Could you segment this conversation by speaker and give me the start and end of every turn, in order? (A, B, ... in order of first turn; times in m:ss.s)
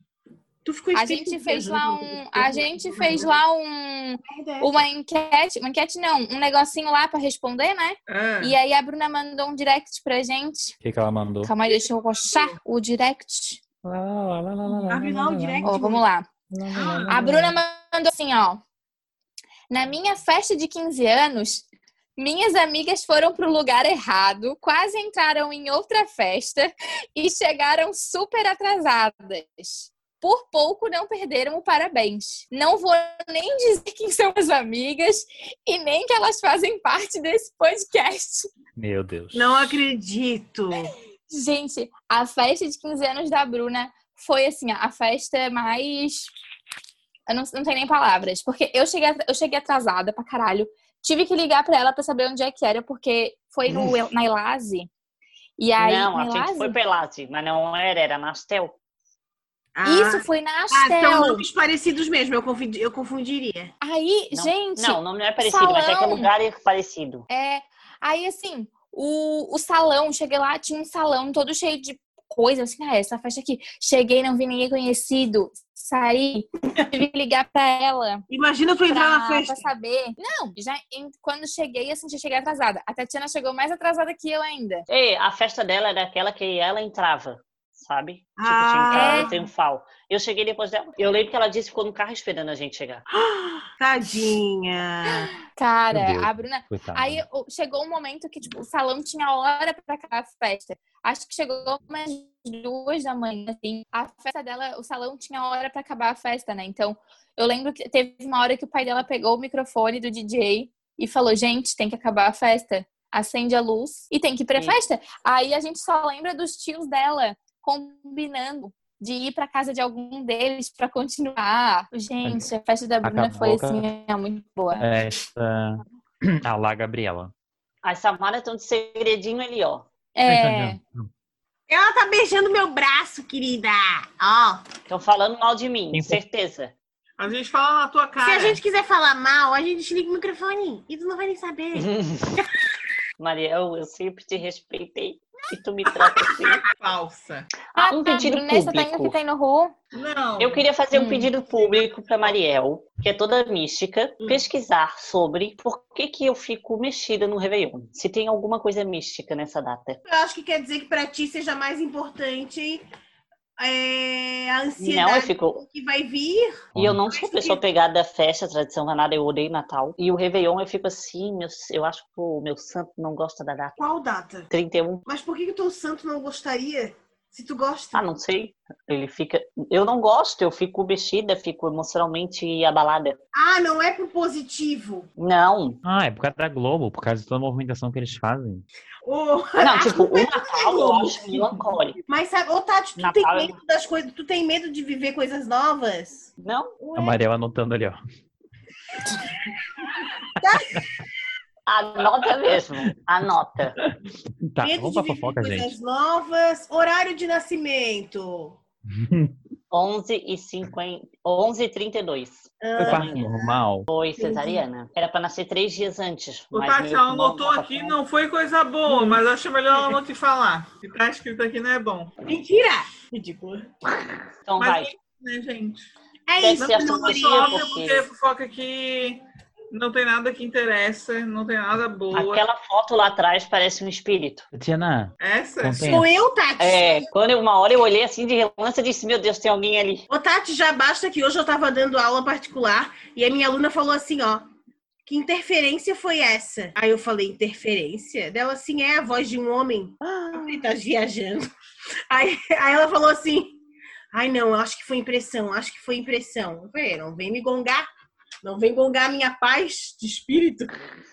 0:00.6-0:03.4 A
0:00.9-0:10.8 B
0:04.3-0:04.8 A
0:08.1-0:08.5 A
0:10.8-0:11.5 C
0:11.4-0:13.6 B
0:11.8-0:12.6 D
0:13.8-0:15.8 C
0:14.7-0:16.0 A
0:15.6-0:16.3 B
0:16.5-0:17.6 C
0:16.7-0:17.2 D
0:17.0-0:18.6 B
0:19.7-0:21.6 B
0:22.2-0:38.5 B
0:38.8-0:39.8 C
0:39.3-0:40.9 A
0:41.3-0:46.3 B
0:47.3-0:54.9 B
0:55.6-0:56.8 B
0:55.8-0:58.8 E
0:59.8-1:03.7 A
0:59.8-1:01.4 B
1:03.8-1:06.3 B
1:04.3-1:07.2 E
1:07.3-1:18.2 B
1:18.3-1:19.6 A
1:18.9-1:24.8 B
1:24.9-1:33.0 E
1:28.4-1:29.5 A
1:28.9-1:29.3 B
1:33.2-1:35.4 A
1:35.1-2:04.9 B
1:35.9-1:37.2 C
2:03.0-2:03.9 C
2:04.8-2:07.3 C
2:07.8-2:09.9 E
2:10.2-2:10.8 B
2:10.3-2:11.1 C
2:11.7-2:14.6 A
2:14.9-2:16.8 E
2:15.9-2:16.2 C
2:17.2-2:18.6 D
2:18.2-2:22.5 A
2:21.7-2:22.4 E
2:23.2-2:26.6 E
2:25.9-2:26.6 A
2:26.8-2:27.5 D
2:27.7-2:29.2 E
2:27.8-2:29.8 B
2:29.9-2:30.7 D
2:30.4-2:40.0 E
2:31.0-2:31.3 B
2:40.0-2:42.8 A
2:43.6-2:47.6 A
2:44.8-2:45.6 E
2:46.8-2:53.8 E
2:53.8-2:54.5 A
2:54.5-2:55.1 E
2:55.1-2:58.0 A
2:57.9-3:03.2 E
3:03.4-3:05.1 A
3:05.2-3:05.8 E
3:05.8-3:08.6 C
3:09.0-3:17.2 A
3:09.6-3:12.0 E
3:13.0-3:13.6 E
3:16.4-3:16.7 E
3:17.0-3:18.0 C
3:20.4-3:20.9 A
3:21.7-3:23.8 E
3:24.5-3:25.7 C
3:24.6-3:28.6 A
3:28.9-3:29.3 C
3:29.7-3:33.2 E
3:32.6-3:33.6 A
3:32.8-3:33.9 C
3:33.9-3:38.0 E
3:34.2-3:34.6 A
3:36.5-3:42.1 D
3:38.9-3:39.2 A
3:42.2-3:43.7 A
3:44.4-3:44.9 E
3:44.6-3:45.9 D
3:46.3-3:47.7 A
3:46.4-3:48.1 E
3:46.6-3:49.2 D
3:49.7-3:52.4 D
3:52.1-3:54.5 E
3:54.5-3:56.1 C
3:55.2-3:56.0 D
3:55.9-3:57.1 A
3:56.6-4:00.1 E
4:00.1-4:04.5 A
4:05.1-4:11.5 A
4:10.1-4:10.6 E
4:12.1-4:13.6 A
4:14.1-4:17.9 A
4:18.4-4:20.9 A